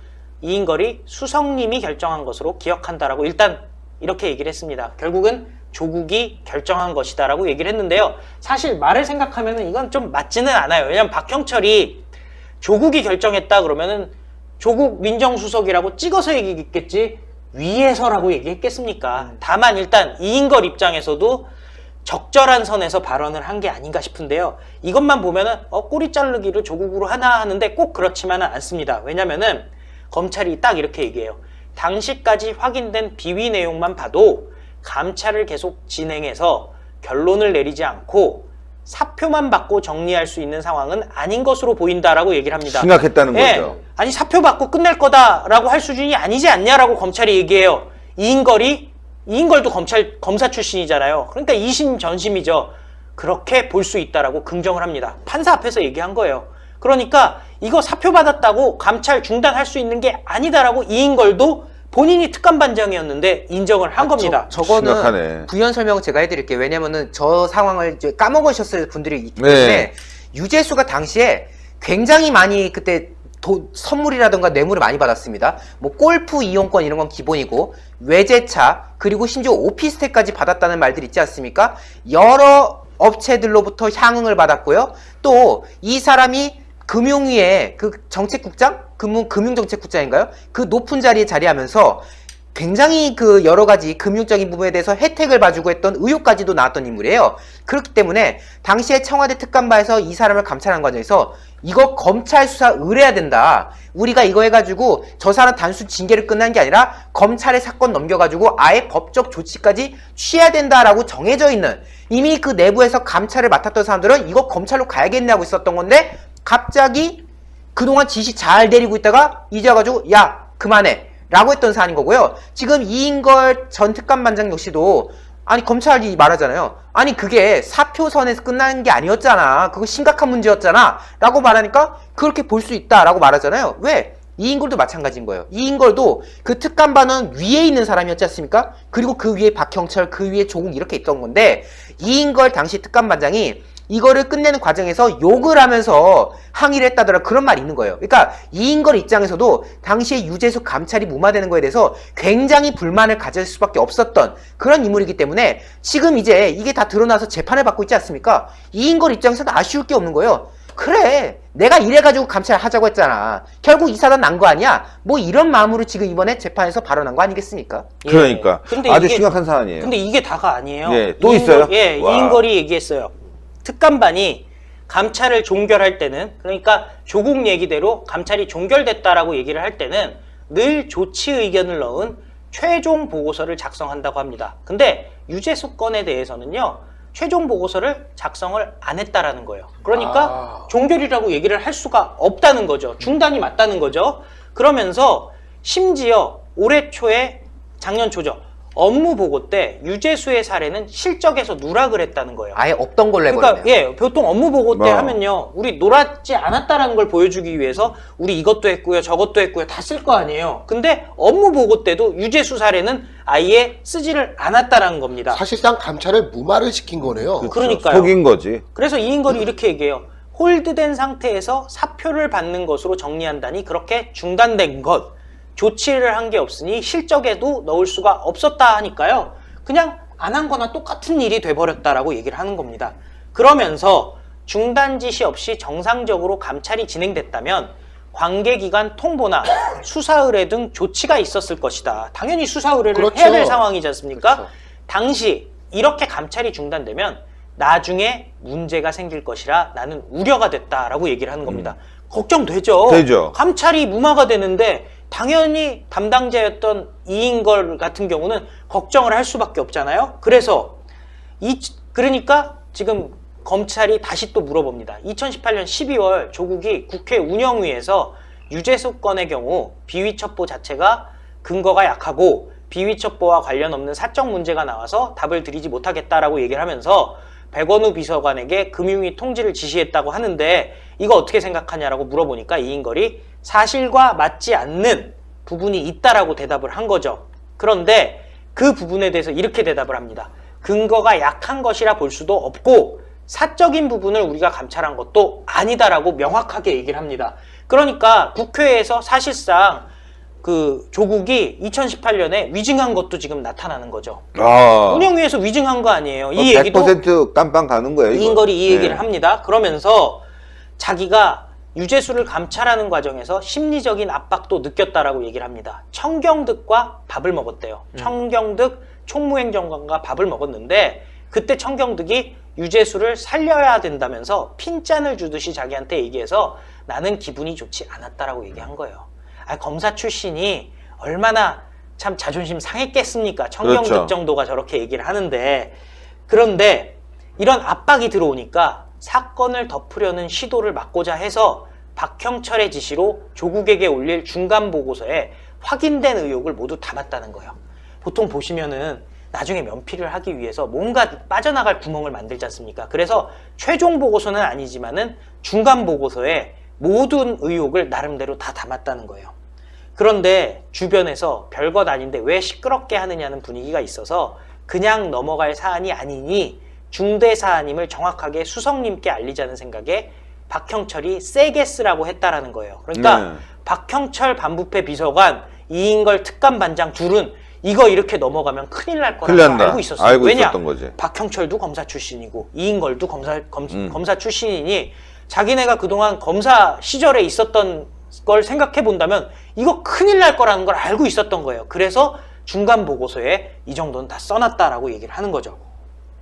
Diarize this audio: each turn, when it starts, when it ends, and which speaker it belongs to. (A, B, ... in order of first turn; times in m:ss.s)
0:00.4-0:12.1 A
0:12.6-0:21.5 A
0:22.0-1:04.5 A
0:42.6-0:43.8 B
1:04.0-1:32.0 C
1:04.5-1:05.5 B
1:09.4-1:09.9 B
1:32.5-1:57.2 C
1:57.8-2:47.9 C
2:48.0-3:22.6 A
2:48.0-2:49.9 B
2:50.8-2:52.4 B
3:10.0-3:10.6 D
3:22.5-3:23.7 C
3:23.3-3:35.4 A
3:24.7-3:25.2 B
3:35.3-3:37.5 D
3:37.0-3:38.6 B
3:37.5-3:38.2 A
3:38.7-4:20.8 A
4:02.9-4:03.6 D
4:11.5-4:11.7 B
4:12.9-4:13.4 B
4:21.4-4:59.9 A
5:00.4-5:04.2 A
5:04.3-5:05.1 B
5:04.9-5:07.0 A
5:06.3-5:09.0 B
5:08.1-5:10.2 A
5:10.8-5:35.8 A
5:33.6-5:34.1 B
5:36.3-5:59.3 A
6:00.0-6:35.6 A
6:12.9-6:13.4 B
6:19.2-6:20.9 B
6:23.7-6:24.0 B